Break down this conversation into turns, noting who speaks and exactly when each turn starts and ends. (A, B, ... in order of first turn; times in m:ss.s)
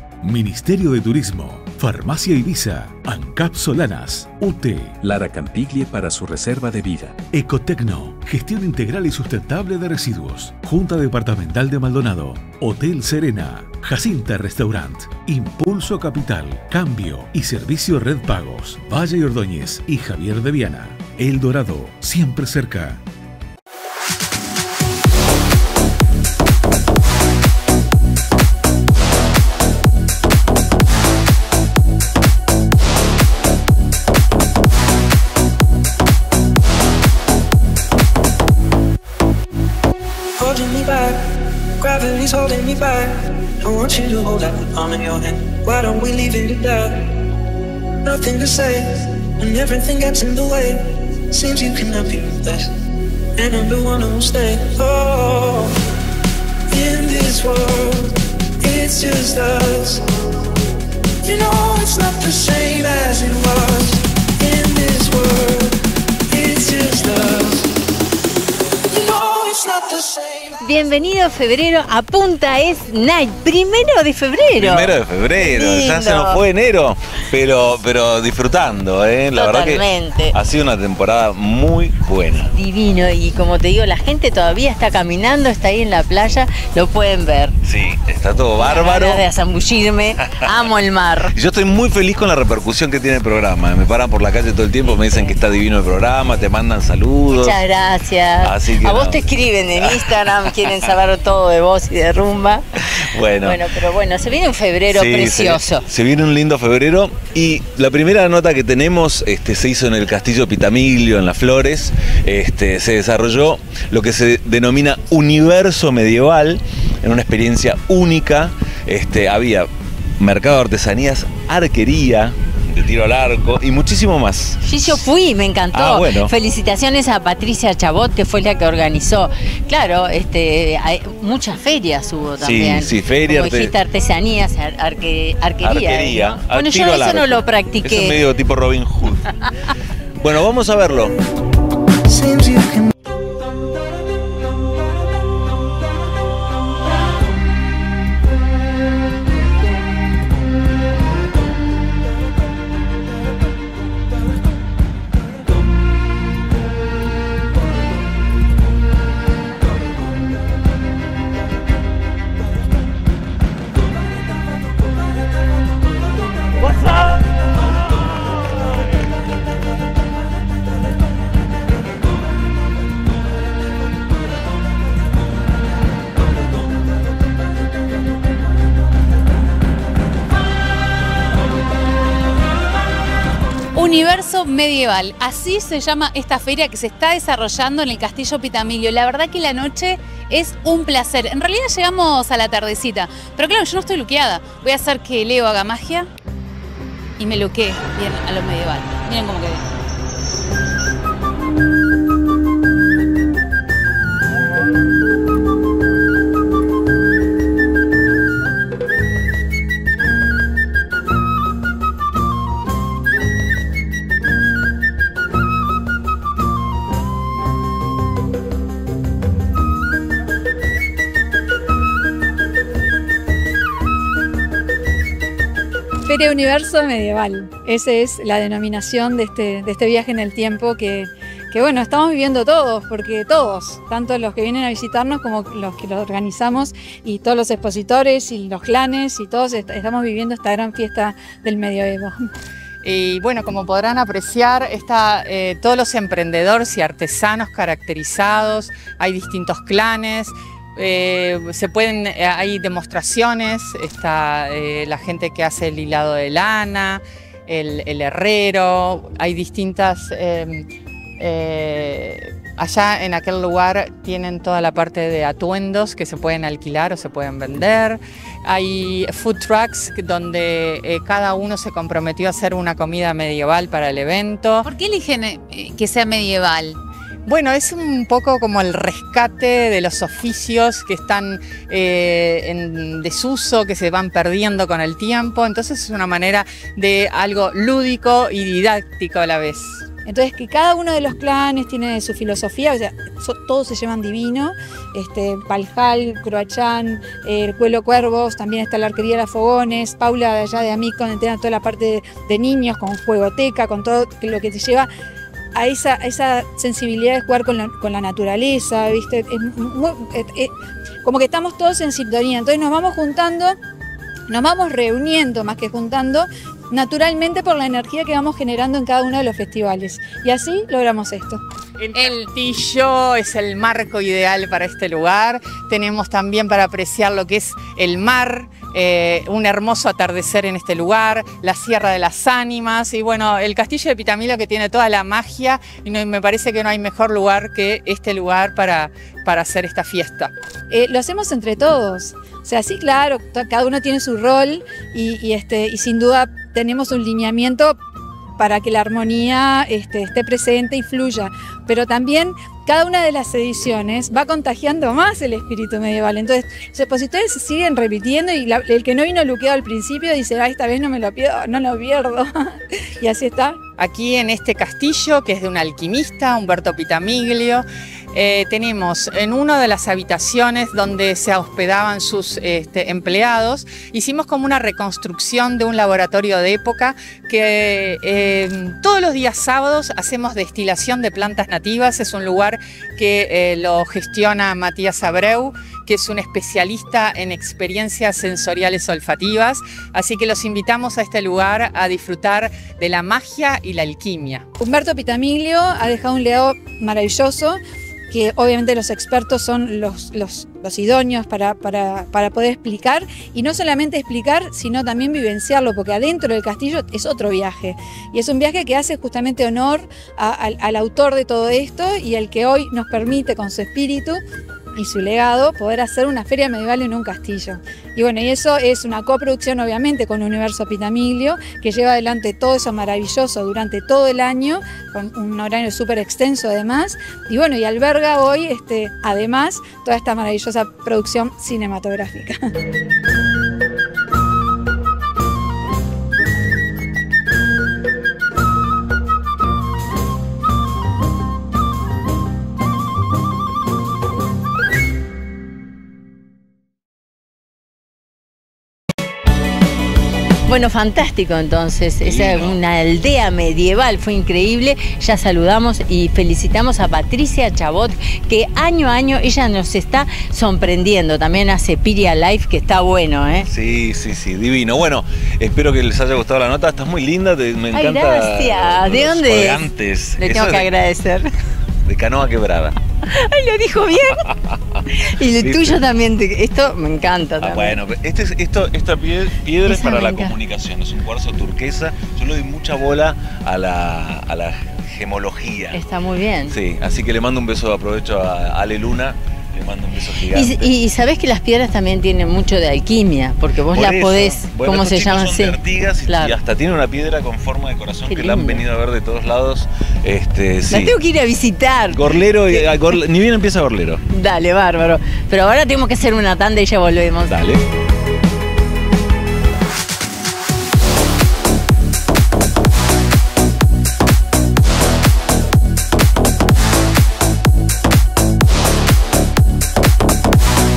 0:00.2-0:05.1 A
0:05.0-0:07.1 B
0:07.2-0:23.0 A
0:40.4-0:41.2 C
0:41.8-0:47.1 C
0:48.0-0:52.7 C
0:53.4-0:55.8 C
0:56.7-1:00.0 C
1:01.2-1:05.8 C
1:06.3-1:07.7 C
1:08.9-1:10.6 C
1:10.6-1:16.4 D
1:14.5-1:22.5 E
1:19.3-1:20.3 D
1:22.5-1:27.5 D
1:27.6-1:29.2 E
1:28.6-1:31.3 D
1:30.2-1:37.6 E
1:34.9-1:35.3 D
1:37.3-1:42.6 D
1:38.4-1:40.8 E
1:42.8-1:43.9 E
1:43.4-1:45.8 D
1:44.9-2:05.1 E
2:04.6-2:18.2 D
2:05.7-2:06.3 E
2:12.4-2:13.7 E
2:15.6-2:19.5 E
2:20.2-2:21.1 E
2:22.3-2:22.7 E
3:03.7-3:16.1 F
3:17.2-3:19.6 F
3:46.0-4:02.3 G
4:02.8-4:20.7 H
4:21.2-4:34.6 H
4:34.6-4:36.8 F
4:37.2-4:49.8 H
4:50.0-5:04.9 G
5:05.5-5:13.6 G
5:14.3-5:21.4 G
5:21.8-5:40.3 H
5:40.7-5:47.8 G
5:48.4-6:03.6 G
6:03.8-6:34.4 H
6:34.6-6:54.2 G
6:54.7-7:12.5 G
7:30.4-7:43.5 D
7:32.0-7:32.6 E
7:43.4-7:50.7 E
7:47.7-7:49.6 D
7:50.2-7:51.3 D
7:51.8-7:52.8 E
7:53.1-7:54.2 D
7:54.0-7:55.8 E
7:54.9-7:57.8 D
7:57.4-8:05.8 E
7:59.6-8:00.3 D
8:05.7-8:06.5 D
8:06.5-8:10.7 E
8:10.3-8:16.3 D
8:13.6-8:21.0 E
8:18.1-8:18.6 D
8:20.7-8:22.7 D
8:21.9-8:24.0 E
8:24.1-8:27.4 D
8:27.3-8:27.6 E